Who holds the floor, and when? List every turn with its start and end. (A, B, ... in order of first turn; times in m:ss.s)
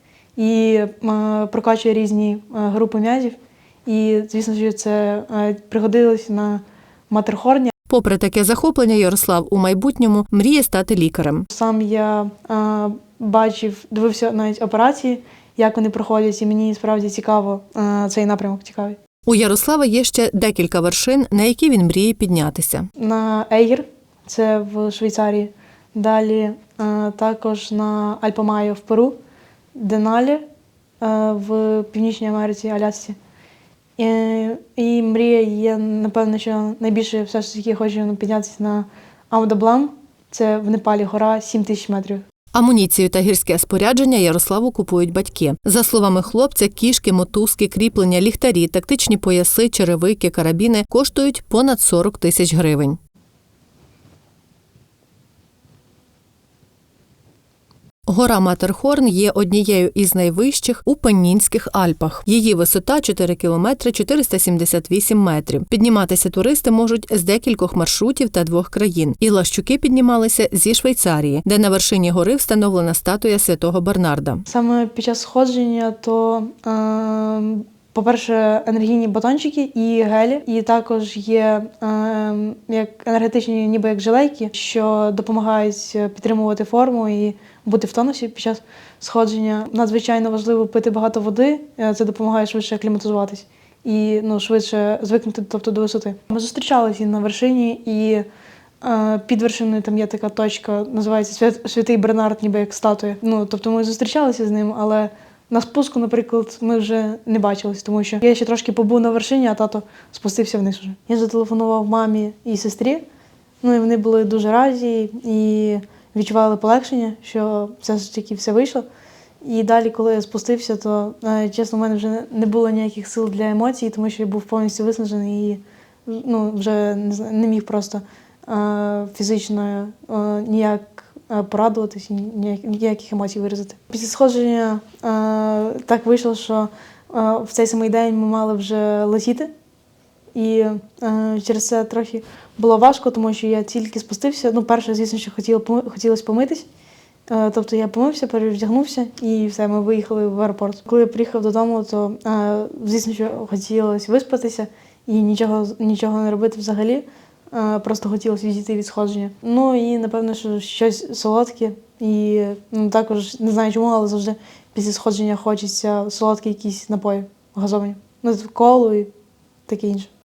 0:00.4-0:07.7 A
0:07.9-0:11.5 B
0:11.5-0:19.0 A
0:19.3-0:22.9 B
0:23.0-0:29.2 A
0:29.8-0:30.4 A
0:31.0-0:33.2 A
0:34.0-0:42.2 A
0:42.5-0:53.0 B
0:58.1-1:14.5 B
1:14.5-1:38.3 A
1:38.8-1:53.0 A
1:53.6-1:58.8 A
1:59.4-2:19.5 A
2:20.3-2:26.7 A
2:27.3-2:49.1 A
2:49.7-2:50.1 A